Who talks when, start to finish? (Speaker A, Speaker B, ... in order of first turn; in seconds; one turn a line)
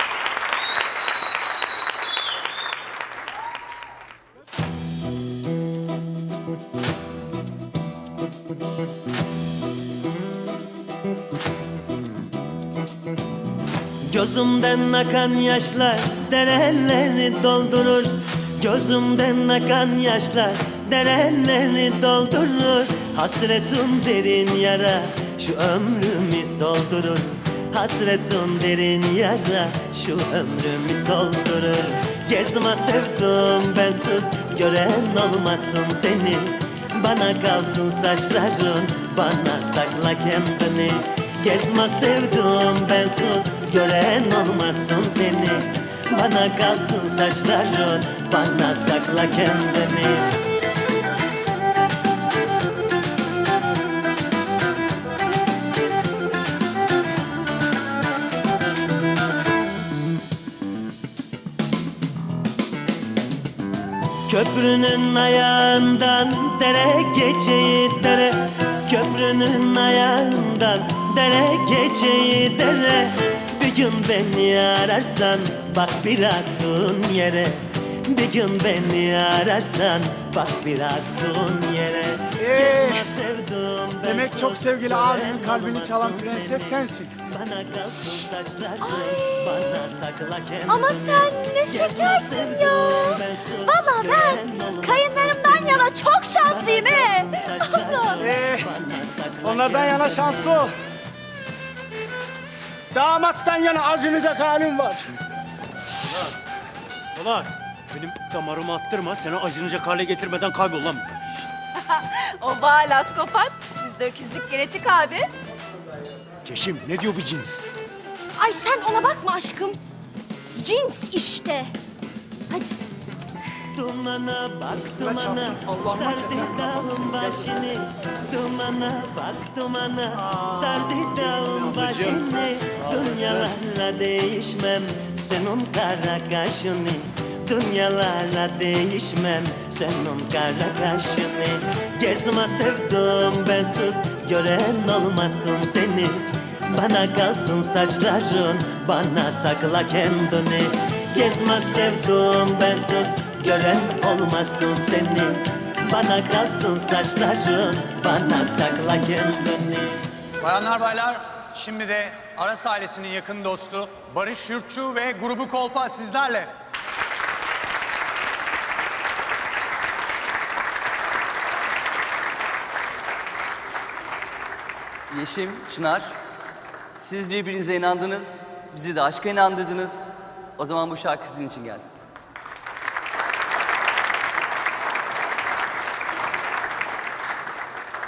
Speaker A: 14.1-50.3
Speaker A: 64.3-100.7
Speaker B: 82.4-83.0
Speaker B: 84.0-87.1
Speaker C: 88.8-89.5
Speaker C: 90.7-98.2
Speaker B: 98.2-98.7
Speaker B: 99.4-100.7
Speaker B: 102.9-105.1
Speaker D: 107.2-111.1
Speaker C: 111.8-115.3
Speaker D: 116.5-117.6
Speaker C: 118.4-119.8
Speaker C: 120.6-121.7
Speaker C: 122.5-122.8
Speaker A: 123.7-160.0
Speaker B: 124.9-127.0
Speaker B: 131.7-132.2
Speaker B: 132.9-133.4
Speaker E: 160.4-166.5
Speaker F: 175.1-176.2
Speaker F: 177.0-182.0